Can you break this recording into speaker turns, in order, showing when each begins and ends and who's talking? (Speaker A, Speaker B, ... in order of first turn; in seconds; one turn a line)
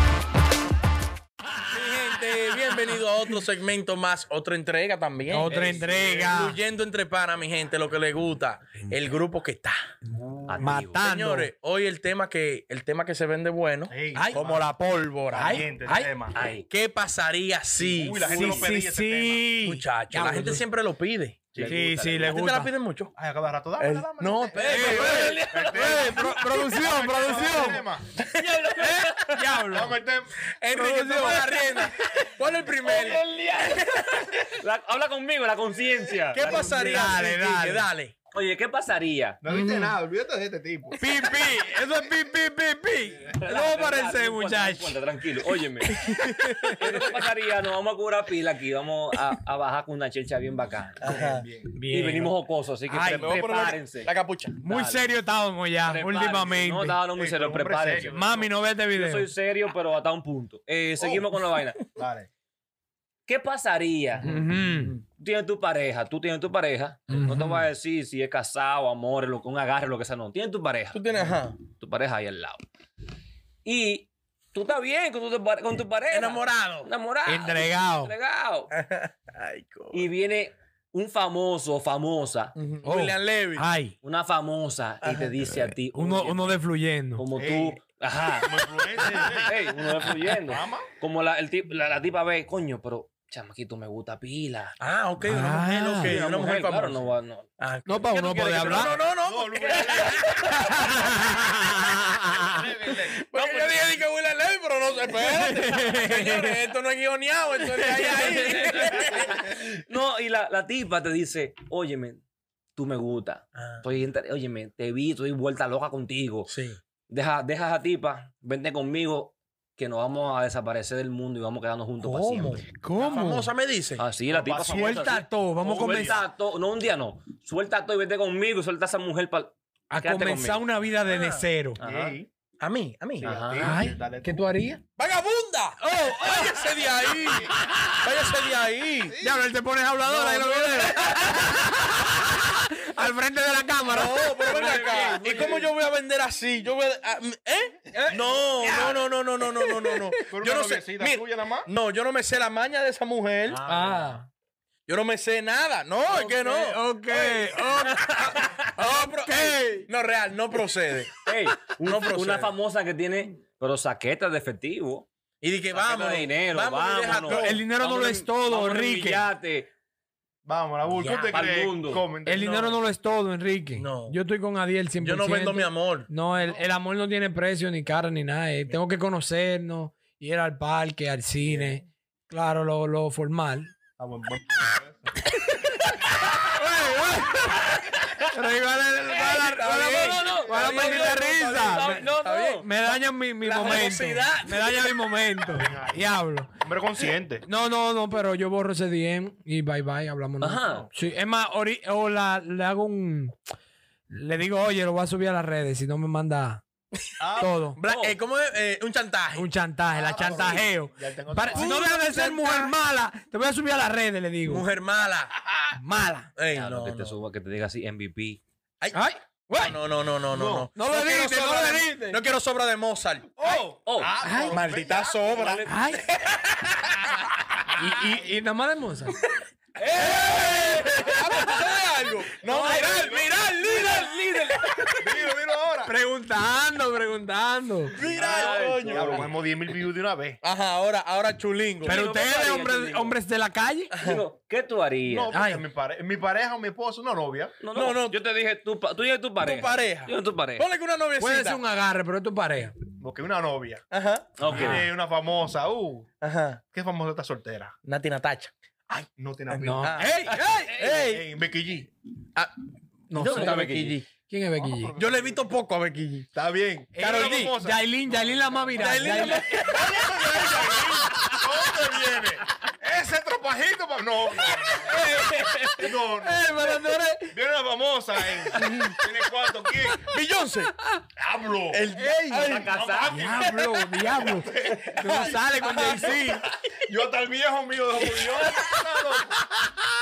Speaker A: 1.7-3.0
Speaker B: 2.0-9.8
Speaker A: 5.3-6.6
Speaker C: 5.4-6.3
Speaker D: 10.1-10.7
Speaker C: 10.5-11.0
Speaker A: 10.6-11.5
Speaker B: 10.9-15.7
Speaker D: 13.9-14.7
Speaker A: 14.1-16.1
Speaker D: 15.3-16.4
Speaker C: 16.3-16.6
Speaker B: 16.7-18.7
Speaker D: 17.8-19.5
Speaker A: 18.3-20.6
Speaker B: 19.6-21.4
Speaker D: 21.5-21.8
Speaker C: 21.6-22.3
Speaker A: 21.6-22.7
Speaker B: 22.2-23.1
Speaker D: 23.1-28.1
Speaker B: 23.8-25.5
Speaker A: 24.6-27.9
Speaker C: 24.6-26.5
Speaker C: 28.3-29.3
Speaker A: 28.8-30.0
Speaker D: 29.7-30.4
Speaker B: 30.6-33.2
Speaker A: 30.7-31.9
Speaker C: 32.8-37.1
Speaker B: 36.3-38.1
Speaker A: 36.4-37.9
Speaker C: 38.3-39.4
Speaker D: 39.4-41.0
Speaker A: 39.5-40.0
Speaker A: 41.0-45.0
Speaker C: 43.2-46.0
Speaker B: 46.0-46.9
Speaker A: 46.2-46.8
Speaker C: 46.8-51.1
Speaker B: 51.0-51.5
Speaker D: 51.0-51.7
Speaker A: 51.7-52.4
Speaker C: 51.9-54.1
Speaker A: 52.9-53.4
Speaker B: 53.0-54.5
Speaker A: 54.6-57.0
Speaker C: 54.6-55.1
Speaker C: 55.8-61.8
Speaker D: 57.1-58.4
Speaker A: 58.1-59.3
Speaker B: 61.0-61.4
Speaker D: 62.0-62.3
Speaker C: 63.3-64.3
Speaker A: 64.2-64.9
Speaker C: 65.2-71.0
Speaker A: 67.1-67.6
Speaker B: 70.9-71.6
Speaker C: 71.8-72.6
Speaker C: 73.7-78.7
Speaker B: 76.1-76.9
Speaker A: 77.2-78.1
Speaker B: 78.7-80.1
Speaker C: 79.9-82.5
Speaker B: 82.5-83.7
Speaker A: 82.8-83.9
Speaker C: 84.0-86.6
Speaker B: 85.0-85.3
Speaker A: 85.8-87.2
Speaker C: 87.2-94.8
Speaker D: 87.3-87.8
Speaker D: 88.4-90.9
Speaker B: 94.8-97.0
Speaker A: 95.3-96.2
Speaker C: 96.0-97.5
Speaker D: 96.2-96.5
Speaker B: 97.6-100.6
Speaker A: 97.8-98.9
Speaker C: 98.1-99.0
Speaker D: 99.2-101.0
Speaker C: 99.7-100.7
Speaker A: 100.4-102.6
Speaker D: 102.4-103.2
Speaker B: 103.2-109.5
Speaker A: 105.2-106.5
Speaker A: 107.7-108.1
Speaker C: 107.8-112.2
Speaker C: 112.8-116.5
Speaker B: 113.5-113.8
Speaker B: 116.5-116.8
Speaker C: 117.1-122.6
Speaker B: 122.0-124.1
Speaker A: 122.7-123.5
Speaker C: 124.0-130.6
Speaker D: 124.3-126.2
Speaker A: 124.7-126.2
Speaker A: 129.9-131.8
Speaker B: 131.1-131.3
Speaker C: 131.8-132.2
Speaker D: 131.8-132.3
Speaker B: 132.6-133.4
Speaker D: 133.2-134.5
Speaker C: 133.2-133.8
Speaker A: 133.6-134.8
Speaker B: 135.0-139.2
Speaker A: 135.8-138.0
Speaker D: 137.2-137.5
Speaker D: 139.1-139.4
Speaker A: 139.2-144.8
Speaker B: 140.0-141.4
Speaker B: 143.9-153.6
Speaker C: 144.4-145.7
Speaker A: 147.9-150.3
Speaker D: 150.3-151.7
Speaker D: 153.5-154.1
Speaker A: 153.7-154.3
Speaker B: 154.9-157.6
Speaker A: 156.1-159.9
Speaker C: 157.9-158.6
Speaker B: 158.8-161.1
Speaker C: 161.2-165.1
Speaker B: 161.8-162.5
Speaker B: 165.4-167.6
Speaker C: 165.7-169.7
Speaker A: 167.3-169.3
Speaker D: 170.4-172.5
Speaker B: 170.9-171.3
Speaker C: 171.3-172.1
Speaker A: 172.2-183.7
Speaker B: 172.3-172.8
Speaker B: 173.8-174.2
Speaker B: 175.0-176.1
Speaker D: 181.4-181.8
Speaker D: 184.0-185.1
Speaker A: 185.5-187.7
Speaker A: 188.3-192.1
Speaker B: 189.1-195.0
Speaker C: 189.1-192.7
Speaker D: 190.6-191.1
Speaker A: 192.6-196.5
Speaker C: 193.6-193.9
Speaker D: 195.4-196.1
Speaker D: 196.6-197.4
Speaker A: 197.4-203.4
Speaker C: 200.4-200.9
Speaker A: 204.1-206.6
Speaker D: 207.2-207.6
Speaker A: 207.4-207.8
Speaker B: 207.8-209.5
Speaker C: 207.8-208.2
Speaker A: 209.3-214.6
Speaker D: 209.9-212.0
Speaker B: 211.5-212.7
Speaker B: 214.5-215.3
Speaker A: 215.8-216.3
Speaker B: 216.4-217.2
Speaker C: 216.5-218.4
Speaker B: 218.8-223.4
Speaker A: 218.9-219.8
Speaker D: 220.3-220.7
Speaker A: 220.7-222.2
Speaker D: 223.4-225.7
Speaker C: 223.6-224.2
Speaker A: 224.2-224.6
Speaker B: 224.5-225.9
Speaker A: 225.7-226.1
Speaker A: 227.7-229.2
Speaker B: 229.8-234.6
Speaker A: 230.0-231.7
Speaker A: 232.4-233.3
Speaker D: 232.6-233.2
Speaker C: 233.6-235.1
Speaker D: 235.0-235.9
Speaker A: 235.8-237.9
Speaker B: 237.9-239.3
Speaker C: 238.1-239.3
Speaker D: 238.2-240.4
Speaker B: 240.4-242.0
Speaker C: 241.8-243.2
Speaker A: 241.8-243.9
Speaker B: 243.9-244.2
Speaker C: 244.0-245.3
Speaker D: 245.1-247.6
Speaker A: 245.3-245.7
Speaker C: 247.6-250.7
Speaker B: 247.7-248.2
Speaker B: 249.4-251.6
Speaker A: 251.2-252.7
Speaker D: 253.0-253.8
Speaker B: 253.9-254.8
Speaker C: 254.4-254.8
Speaker D: 254.5-256.1
Speaker A: 254.5-254.8
Speaker B: 256.2-256.6
Speaker D: 256.7-257.8
Speaker B: 257.8-261.3
Speaker D: 259.1-259.9
Speaker A: 259.6-260.8
Speaker C: 260.3-261.1
Speaker D: 260.9-261.9
Speaker A: 263.1-263.7
Speaker B: 263.1-264.1
Speaker C: 263.2-264.0
Speaker A: 264.3-264.9
Speaker D: 264.6-265.4
Speaker B: 265.0-266.3
Speaker D: 266.3-276.8
Speaker A: 266.9-271.1
Speaker B: 267.0-267.4
Speaker B: 268.8-271.2
Speaker B: 271.8-272.2
Speaker A: 274.4-277.3
Speaker D: 277.3-280.1
Speaker A: 278.6-278.9
Speaker B: 280.0-280.7
Speaker D: 281.2-283.4
Speaker B: 281.7-284.3
Speaker C: 282.3-283.2
Speaker A: 283.1-286.4
Speaker D: 284.3-285.4
Speaker B: 285.0-286.5
Speaker D: 286.9-289.4
Speaker B: 288.0-288.8